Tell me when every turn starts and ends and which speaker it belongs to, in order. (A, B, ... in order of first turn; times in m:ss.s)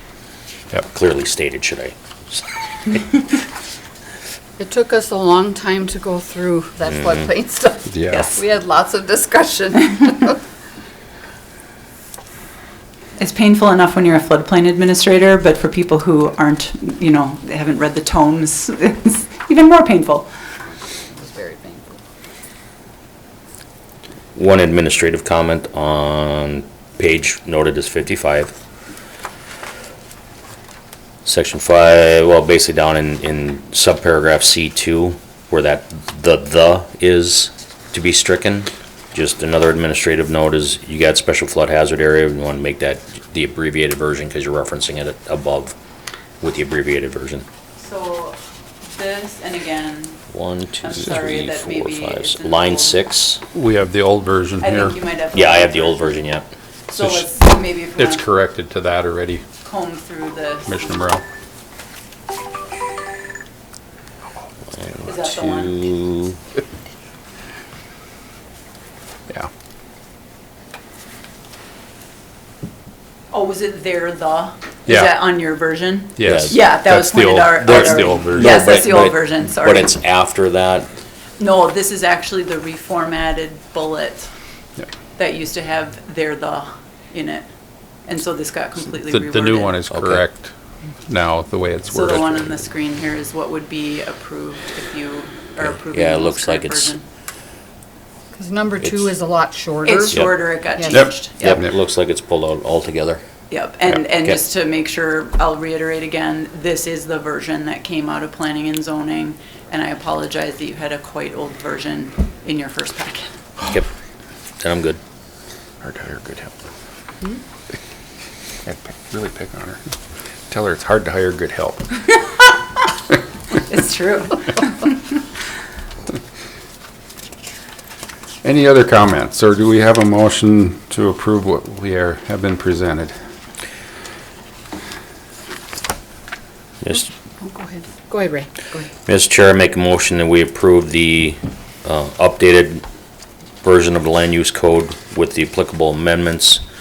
0:00.8-0:03.2 A
0:04.6-0:10.4 B
0:07.9-0:08.3 C
0:13.2-0:20.3 D
0:20.9-0:22.0 B
0:24.3-0:28.5 A
0:31.2-0:45.8 A
0:46.4-0:47.4 A
0:47.8-0:48.4 D
0:48.9-0:50.2 D
0:50.3-0:53.4 A
0:50.8-0:53.0 D
0:53.5-0:55.0 C
0:54.6-0:56.2 D
0:55.3-0:56.5 A
0:56.9-0:58.2 D
0:56.9-0:57.3 C
0:58.0-0:59.4 C
0:59.6-1:00.8 D
1:00.7-1:01.2 C
1:04.7-1:06.4 A
1:05.0-1:05.8 D
1:13.3-1:19.9 D
1:14.9-1:15.1 C
1:16.2-1:18.6 C
1:16.2-1:16.5 A
1:17.7-1:20.9 A
1:21.4-1:24.3 D
1:25.2-1:27.5 D
1:28.0-1:29.8 D
1:29.1-1:30.5 C
1:29.9-1:30.2 A
1:31.1-1:32.5 C
1:31.9-1:37.0 D
1:35.6-1:36.9 A
1:38.3-1:41.0 B
1:39.8-1:41.6 D
1:40.9-1:41.7 C
1:41.1-1:43.2 A
1:43.5-1:53.3 D
1:54.6-1:55.0 A
1:55.8-1:56.5 C
1:58.6-1:59.8 C
2:00.5-2:01.9 C
2:03.6-2:05.2 D
2:08.4-2:13.2 C
2:16.8-2:17.1 A
2:17.4-2:18.9 B
2:19.0-2:22.8 A
2:23.6-2:26.6 A